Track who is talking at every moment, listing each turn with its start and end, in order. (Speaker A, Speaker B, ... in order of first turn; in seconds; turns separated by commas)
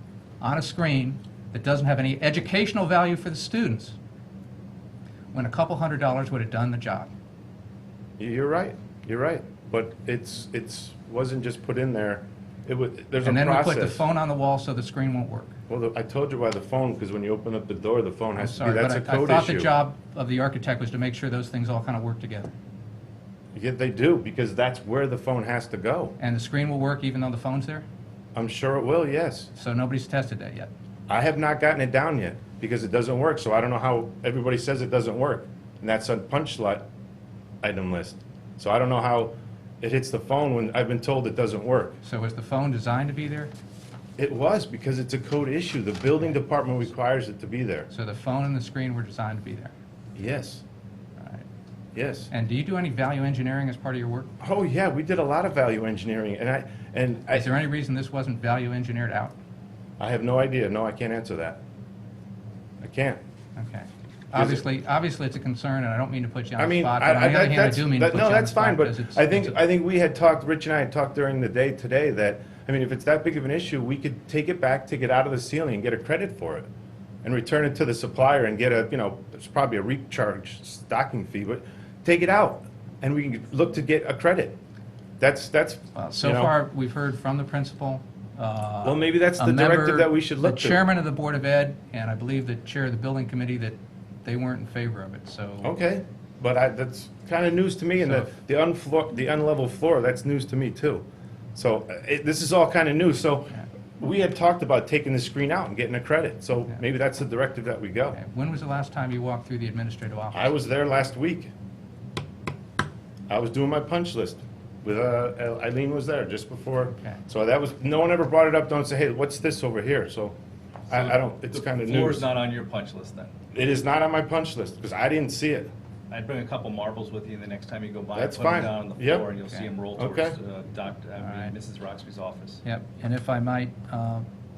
Speaker A: 0.4-4.0, Speaker A: 5.3-7.1, Speaker B: 8.2-14.0, Speaker A: 13.2-15.5, Speaker B: 15.7-19.7, Speaker A: 18.4-22.5, Speaker B: 23.6-26.1, Speaker A: 26.2-27.9, Speaker B: 28.4-29.5, Speaker A: 29.6-30.7, Speaker B: 31.1-36.8, Speaker B: 37.6-42.0, Speaker A: 42.0-43.5, Speaker B: 44.2-47.9, Speaker A: 47.9-49.7, Speaker B: 50.2-50.6, Speaker A: 51.2-51.5, Speaker B: 52.0-52.3, Speaker A: 52.3-54.3, Speaker B: 54.4-57.5, Speaker A: 57.3-59.3, Speaker B: 60.0-61.6, Speaker B: 62.8-63.2, Speaker A: 63.6-69.6, Speaker B: 64.3-64.6, Speaker B: 66.6-76.7, Speaker B: 77.2-84.6, Speaker B: 85.2-86.5, Speaker A: 86.0-95.7, Speaker B: 88.8-90.8, Speaker B: 95.6-101.0, Speaker A: 98.0-98.4, Speaker B: 101.6-108.2, Speaker A: 108.1-110.6, Speaker B: 110.3-111.5, Speaker B: 113.3-120.4, Speaker B: 120.9-122.3, Speaker C: 120.9-123.3, Speaker B: 123.5-125.7, Speaker C: 126.1-132.6, Speaker B: 128.2-129.3, Speaker B: 130.0-130.4, Speaker A: 131.2-131.5, Speaker A: 132.6-134.3